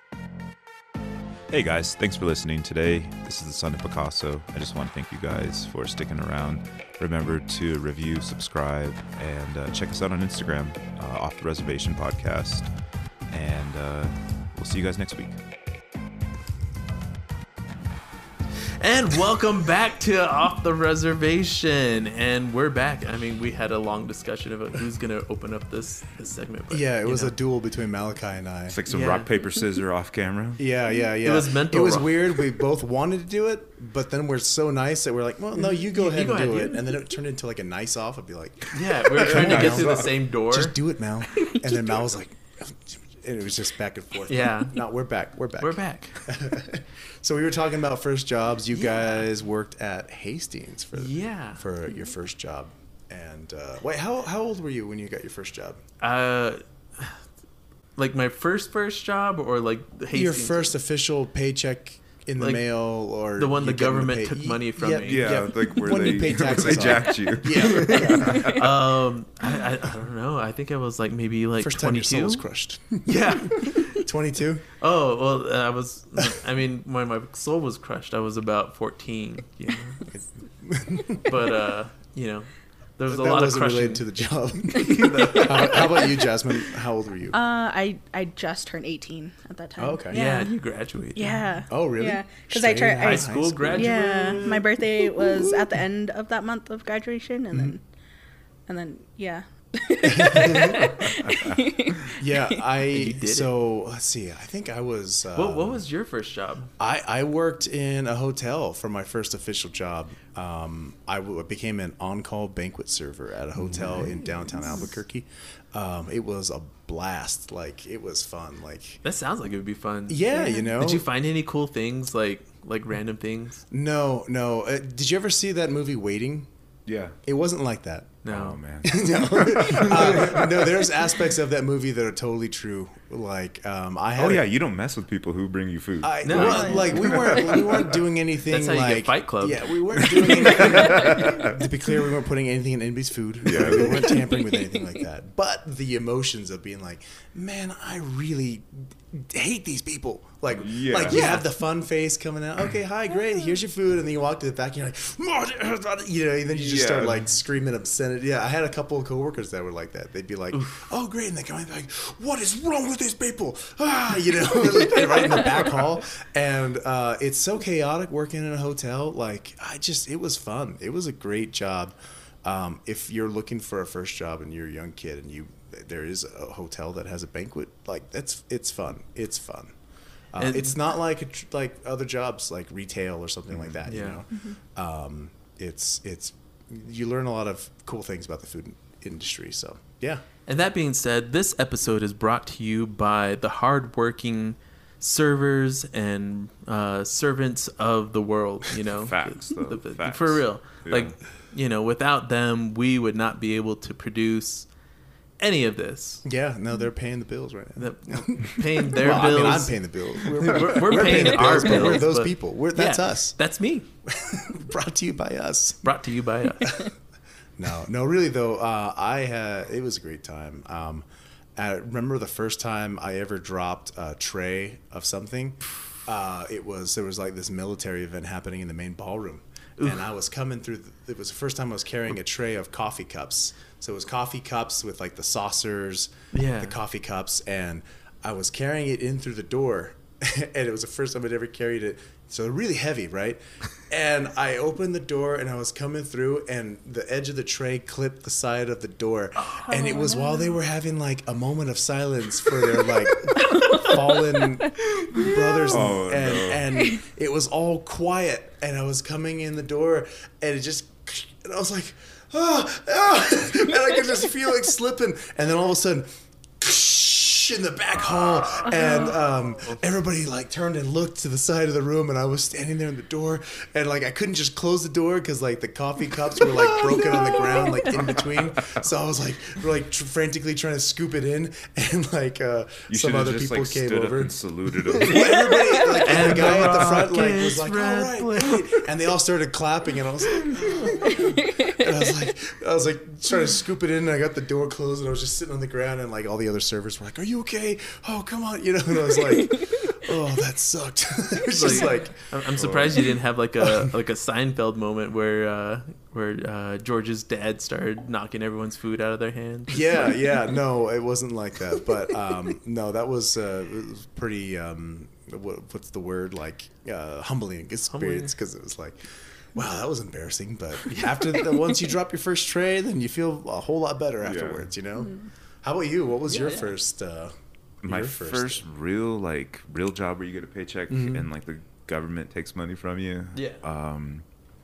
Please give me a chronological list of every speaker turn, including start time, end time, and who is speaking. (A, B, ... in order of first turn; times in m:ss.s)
0:01.5-0:12.7 A
0:13.3-0:15.4 A
0:18.8-0:27.3 B
0:26.7-0:28.8 C
0:28.7-0:30.6 A
0:28.9-0:29.3 B
0:30.6-0:55.8 C
0:31.2-0:32.4 B
0:35.7-0:36.8 B
0:38.7-0:40.8 B
0:39.1-0:40.2 A
0:41.3-0:42.0 D
0:44.3-0:44.8 B
0:45.6-0:46.3 B
0:48.7-0:49.2 B
0:50.9-0:51.6 B
0:56.0-0:57.2 B
0:58.0-1:00.7 B
1:00.1-1:08.6 C
1:02.4-1:02.6 B
1:03.4-1:05.3 B
1:05.0-1:08.7 A
1:07.6-1:12.4 B
1:11.6-1:14.6 C
1:13.0-1:14.0 B
1:14.7-1:20.0 B
1:20.1-1:21.4 C
1:21.2-1:24.1 B
1:23.1-1:27.4 C
1:24.7-1:26.2 B
1:25.1-1:26.1 D
1:27.3-1:30.5 D
1:29.8-1:30.2 C
1:30.1-1:31.4 B
1:31.1-1:37.8 D
1:31.7-1:35.8 C
1:33.0-1:34.6 B
1:37.5-1:37.8 C
1:38.7-1:42.6 D
1:40.0-1:45.8 C
1:41.1-1:41.6 A
1:42.9-1:43.5 B
1:45.3-1:46.7 B
1:46.8-1:59.0 C
1:53.7-1:54.0 A
1:54.5-1:54.9 D
1:59.0-2:03.6 B
2:00.1-2:01.1 C
2:00.3-2:00.7 D
2:03.7-2:06.5 C
2:06.8-2:07.2 A
2:07.2-2:08.2 C
2:08.2-2:08.6 B
2:08.2-2:10.9 A
2:08.8-2:14.5 C
2:14.2-2:18.0 A
2:16.0-2:59.7 C
2:16.2-2:17.2 B
2:18.5-2:21.1 B
2:20.5-2:21.6 A
2:23.4-2:24.2 A
2:24.0-2:24.8 D
2:30.6-2:31.2 A
2:31.1-2:31.5 B
2:36.5-2:37.3 A
2:40.5-2:40.9 B
3:00.3-3:10.2 C
3:00.4-3:00.8 B
3:03.8-3:04.2 B
3:04.3-3:04.6 D
3:10.5-3:24.7 B
3:18.9-3:21.1 A
3:25.4-3:26.2 B
3:26.2-3:33.4 C
3:27.8-3:33.9 B
3:34.0-3:36.0 C
3:35.8-3:36.9 B
3:36.6-3:36.9 C
3:37.6-3:41.0 C
3:41.6-4:26.1 C
3:49.8-3:50.1 B
3:56.3-3:56.8 B
4:09.6-4:10.6 D
4:13.3-4:15.9 D
4:15.7-4:16.6 A
4:16.7-4:17.0 D
4:26.6-4:44.3 C
4:28.8-4:29.1 D
4:36.4-4:38.0 D
4:37.9-4:38.8 A
4:42.9-4:45.7 A
4:44.9-5:03.0 C
4:45.2-4:46.3 D
4:46.0-4:48.8 B
4:50.8-4:51.9 D
4:59.5-4:59.8 D
5:01.5-5:10.2 B
5:02.6-5:03.0 A
5:03.6-5:03.9 C
5:09.7-5:27.3 C
5:17.9-5:18.3 B
5:20.9-5:21.1 B
5:21.2-5:21.6 D
5:24.2-5:24.7 A
5:25.0-5:25.2 D
5:26.3-5:26.8 B
5:27.8-5:28.6 C
5:27.8-5:34.2 A
5:30.9-5:31.3 C
5:33.3-5:33.6 B